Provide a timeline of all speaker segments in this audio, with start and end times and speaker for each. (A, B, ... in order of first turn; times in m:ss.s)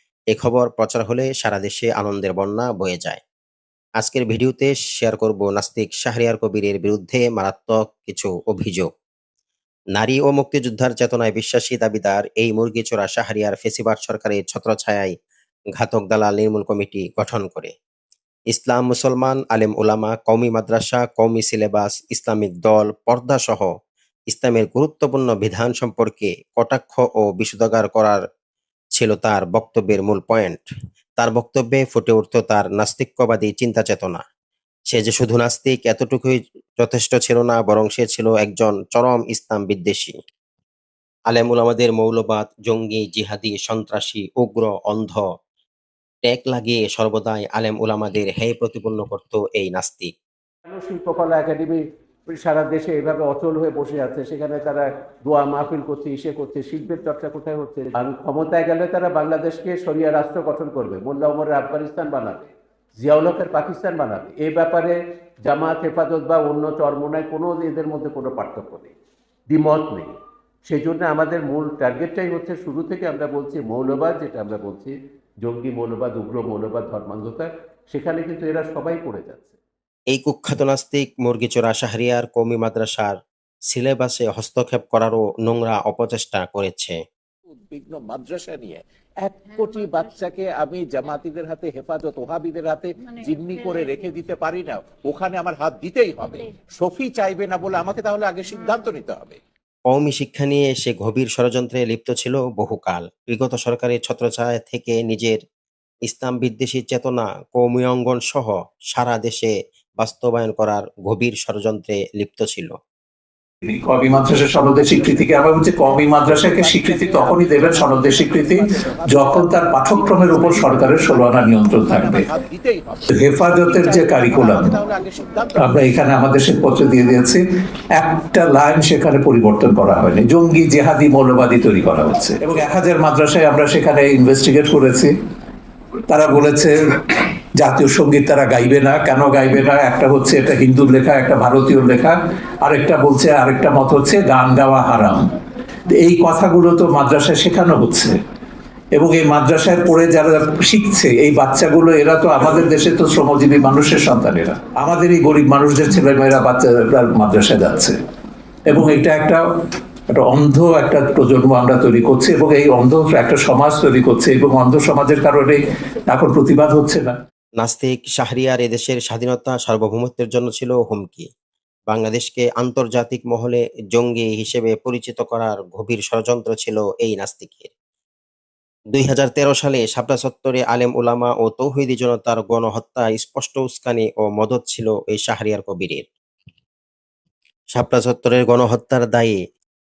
0:00.3-0:03.2 A
0:04.0-0:08.9 A
0:09.9-0:15.1 A
0:15.7-0:17.7 A
0:18.5-0:23.7 A
0:24.3-0:28.2 A
0:29.0-0:30.6 A
0:31.2-0:34.2 A
0:34.9-0:40.1 A
0:41.3-0:45.2 A
0:46.2-0:50.1 A
0:50.7-1:08.9 B
1:09.5-1:10.1 B
1:10.6-1:19.6 B
1:20.1-1:23.2 A
1:23.7-1:27.0 A
1:27.5-1:39.4 C
1:39.9-1:45.4 A
1:46.1-1:52.7 A
1:53.6-2:02.3 D
1:54.1-2:05.9 C
2:03.1-2:04.7 D
2:05.6-2:07.4 D
2:07.9-2:15.1 D
2:16.1-2:25.2 D
2:25.9-2:28.2 D
2:28.9-2:38.0 D
2:38.6-2:39.4 D
2:40.1-2:47.2 D
2:47.6-2:51.3 A
2:51.9-2:57.7 A
2:58.9-3:06.0 A
3:07.7-3:09.4 A